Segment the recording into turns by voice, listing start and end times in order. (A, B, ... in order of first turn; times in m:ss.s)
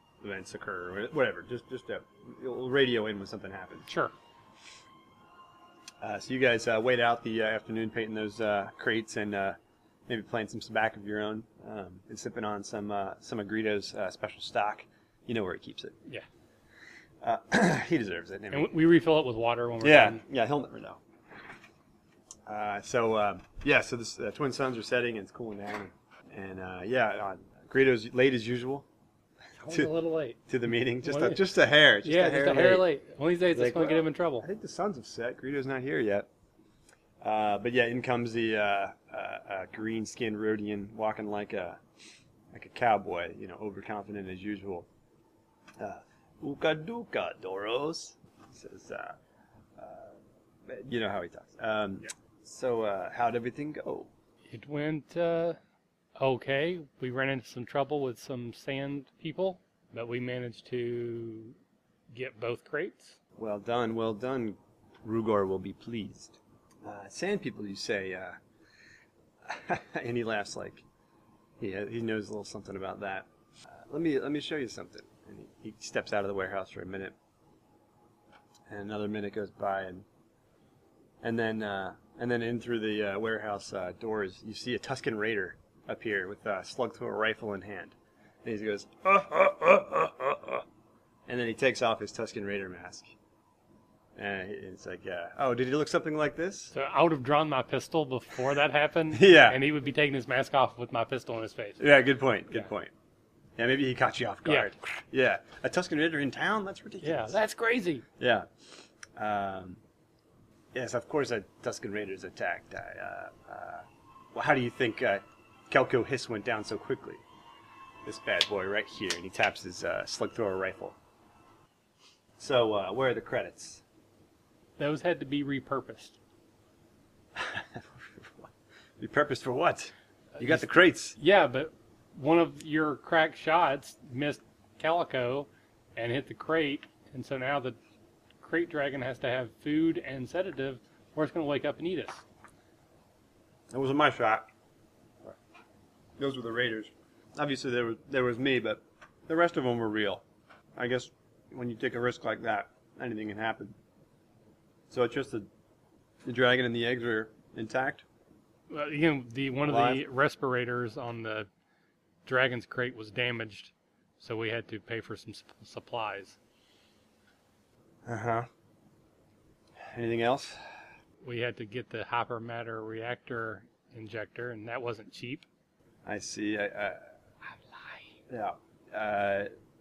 0:00.2-0:03.9 A
0:03.9-0:04.1 B
0:06.0-0:16.0 A
0:17.2-0:18.7 A
0:18.5-0:20.2 B
0:19.8-0:21.0 A
0:22.5-0:28.9 A
0:29.6-0:30.4 B
0:30.5-0:32.9 A
0:31.0-0:31.4 B
0:32.0-0:34.5 B
0:33.5-0:36.3 A
0:37.2-0:41.8 A
0:42.5-0:44.9 A
0:45.8-0:49.2 A
0:49.8-0:54.1 A
0:54.5-0:55.6 B
0:56.2-1:01.6 B
1:02.1-1:03.2 B
1:03.4-1:08.4 A
1:09.4-1:10.8 A
1:11.6-1:17.2 A
1:18.7-1:20.1 A
1:21.2-1:30.6 A
1:31.3-1:33.1 A
1:34.2-1:36.7 A
1:36.7-1:41.8 B
1:39.1-1:39.6 A
1:41.8-1:42.9 A
1:43.6-1:47.4 A
1:47.0-1:48.0 B
1:48.2-1:48.5 A
1:49.2-1:49.8 A
1:50.7-1:57.2 A
1:58.0-2:01.0 A
2:02.4-2:03.8 A
2:04.8-2:06.2 B
2:07.4-2:11.2 A
2:10.4-2:17.8 B
2:18.4-2:22.2 B
2:23.7-2:24.5 A
2:26.2-2:30.2 A
2:30.8-2:33.8 A
2:34.9-2:35.5 A
2:36.2-2:38.0 A
2:38.7-2:41.5 B
2:39.6-2:40.0 A
2:42.3-2:46.4 B
2:48.0-2:48.5 A
2:49.8-2:50.6 A
2:51.2-2:55.5 B
2:56.0-2:57.0 A
2:57.7-2:58.1 B
2:58.3-2:59.5 A